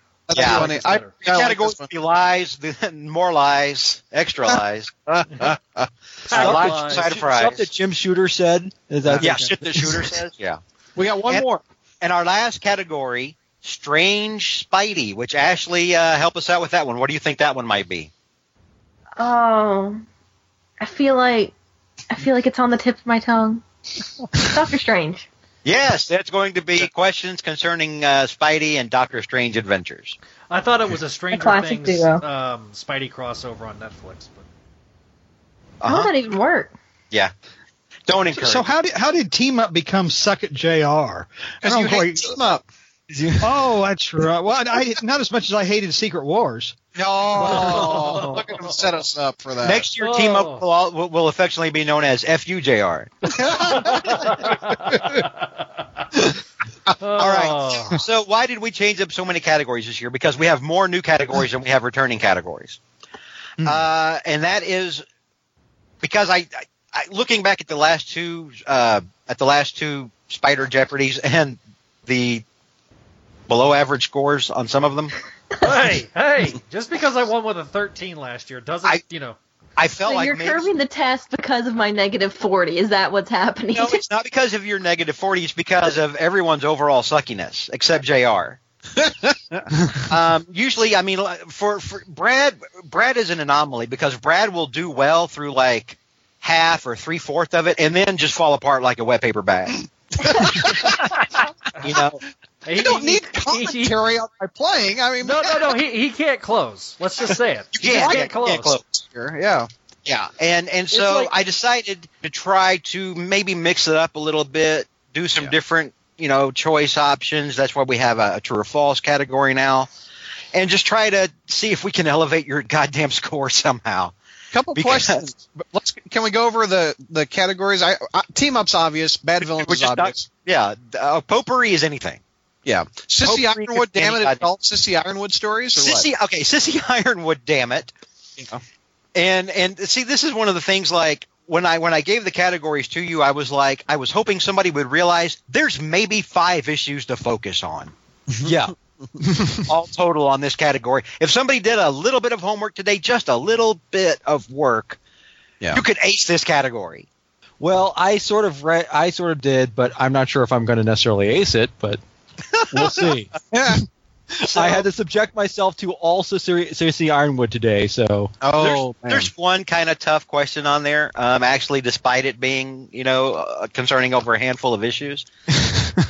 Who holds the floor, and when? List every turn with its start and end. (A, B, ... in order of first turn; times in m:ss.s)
0:00.3-0:01.9 A
0:00.3-0:04.9 B
0:00.3-0:01.1 C
0:04.5-0:05.9 A
0:06.2-0:07.1 C
0:06.3-0:07.7 B
0:06.3-0:09.5 D
0:09.0-0:10.1 A
0:09.2-0:10.6 B
0:11.0-0:11.6 A
0:12.0-0:18.1 B
0:19.2-0:20.0 E
0:20.8-0:21.5 E
0:22.1-0:23.6 E
0:24.3-0:25.3 E
0:25.6-0:30.2 B
0:30.5-0:34.4 C
0:31.3-0:32.2 E
0:35.8-0:36.1 B
0:35.8-0:36.7 E
0:38.1-0:38.7 B
0:38.3-0:42.4 F
0:41.6-0:42.6 A
0:43.1-0:43.5 D
0:43.4-0:46.8 F
0:47.0-0:49.9 A
0:47.4-0:48.8 C
0:47.5-0:47.9 B
0:49.6-0:53.1 B
0:50.0-0:50.6 C
0:53.3-0:54.2 A
0:53.5-0:55.4 C
0:57.0-0:58.0 C
0:57.2-1:02.8 B
1:03.6-1:05.0 B
1:06.0-1:12.4 B
1:13.5-1:15.1 B
1:15.6-1:19.4 C
1:19.8-1:20.7 B
1:20.0-1:24.0 E
1:23.7-1:28.6 B
1:29.0-1:29.7 A
1:29.9-1:41.1 B
1:40.2-1:41.0 A
1:41.8-1:42.2 B
1:42.6-1:43.9 C
1:42.7-1:45.7 A
1:45.2-1:48.8 C
1:47.8-1:48.8 B
1:47.8-1:49.7 A
1:50.0-1:59.9 B
2:00.5-2:04.1 B
2:04.5-2:10.3 A
2:04.7-2:05.3 B
2:09.4-2:12.2 B
2:12.6-2:16.1 A
2:13.2-2:14.5 B
2:15.8-2:17.9 B
2:19.1-2:27.9 B
2:28.4-2:28.7 D
2:29.5-2:35.0 B
2:35.7-2:37.1 B
2:37.6-2:42.0 D
2:42.6-2:43.0 B
2:42.7-2:43.3 D
2:43.5-2:43.8 A
2:44.4-2:44.8 B
2:44.5-2:48.4 D
2:48.4-2:49.3 A
2:48.5-2:55.3 B